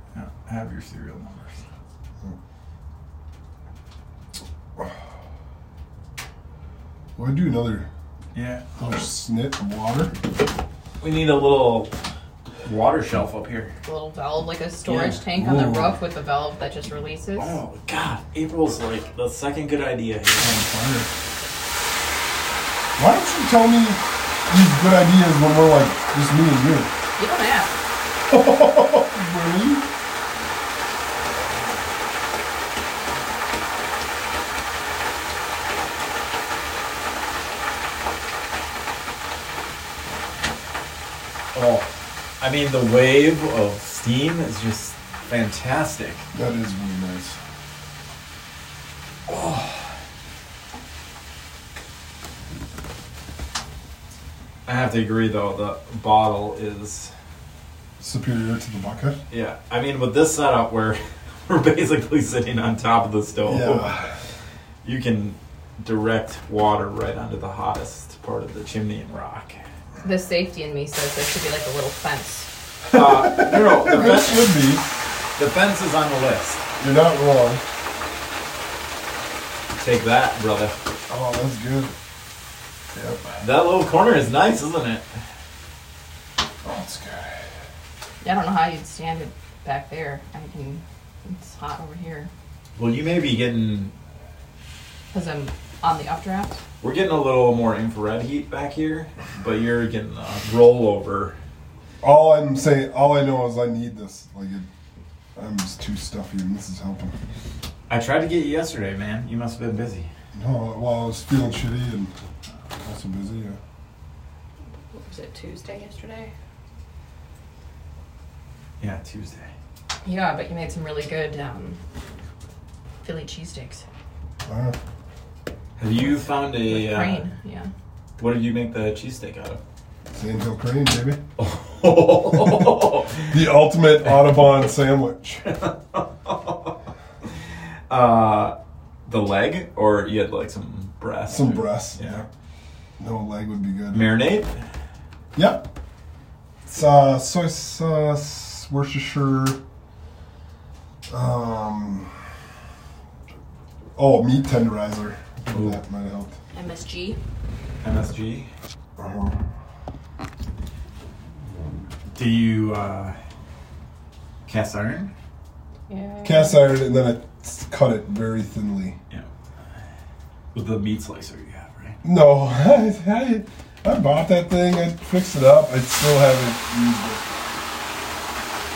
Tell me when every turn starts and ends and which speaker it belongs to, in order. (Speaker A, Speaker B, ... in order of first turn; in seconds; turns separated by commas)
Speaker A: 0.1-1.6, Speaker B: 7.2-7.9, Speaker A: 8.3-9.0, Speaker B: 8.8-10.1, Speaker A: 11.0-11.9, Speaker A: 12.6-13.7, Speaker C: 13.8-17.6, Speaker A: 14.8-15.2, Speaker B: 15.3-16.0, Speaker A: 17.4-21.1, Speaker B: 23.0-26.9, Speaker C: 27.2-27.7, Speaker B: 28.3-29.8, Speaker A: 41.5-46.3, Speaker B: 46.3-47.4, Speaker A: 49.3-49.8, Speaker A: 54.6-57.1, Speaker B: 58.0-59.2, Speaker A: 59.3-64.0, Speaker B: 63.4-64.1, Speaker A: 64.8-69.6, Speaker C: 70.0-72.5, Speaker B: 72.9-74.8, Speaker A: 72.9-74.6, Speaker A: 75.4-76.6, Speaker B: 76.8-77.6, Speaker A: 79.8-80.7, Speaker B: 81.1-81.9, Speaker B: 82.9-83.4, Speaker A: 83.4-85.0, Speaker B: 86.6-87.4, Speaker C: 88.2-92.3, Speaker A: 92.8-93.9, Speaker C: 95.1-96.6, Speaker A: 96.8-101.4, Speaker B: 102.0-104.7, Speaker B: 105.3-107.1, Speaker A: 107.9-110.1, Speaker B: 110.3-112.1, Speaker B: 112.8-113.6, Speaker C: 114.9-116.3, Speaker A: 118.8-119.5, Speaker C: 120.0-121.8, Speaker C: 123.0-123.8, Speaker B: 124.5-124.8, Speaker A: 125.8-127.2, Speaker C: 126.6-127.7, Speaker A: 128.2-129.6, Speaker B: 130.1-131.2, Speaker A: 131.4-133.4, Speaker B: 133.3-135.4, Speaker A: 135.5-136.7, Speaker A: 137.9-138.5, Speaker A: 139.1-142.2, Speaker B: 141.3-142.2, Speaker B: 143.0-144.1, Speaker A: 143.9-144.6, Speaker B: 145.3-145.7, Speaker B: 146.7-149.6, Speaker B: 151.1-152.2, Speaker B: 153.9-156.3, Speaker A: 155.5-155.8, Speaker C: 156.5-157.2, Speaker A: 157.8-158.5, Speaker B: 159.0-159.4, Speaker A: 162.1-163.2, Speaker A: 164.4-165.1, Speaker C: 165.9-166.7, Speaker B: 166.2-169.0, Speaker A: 170.5-172.0, Speaker B: 172.0-177.4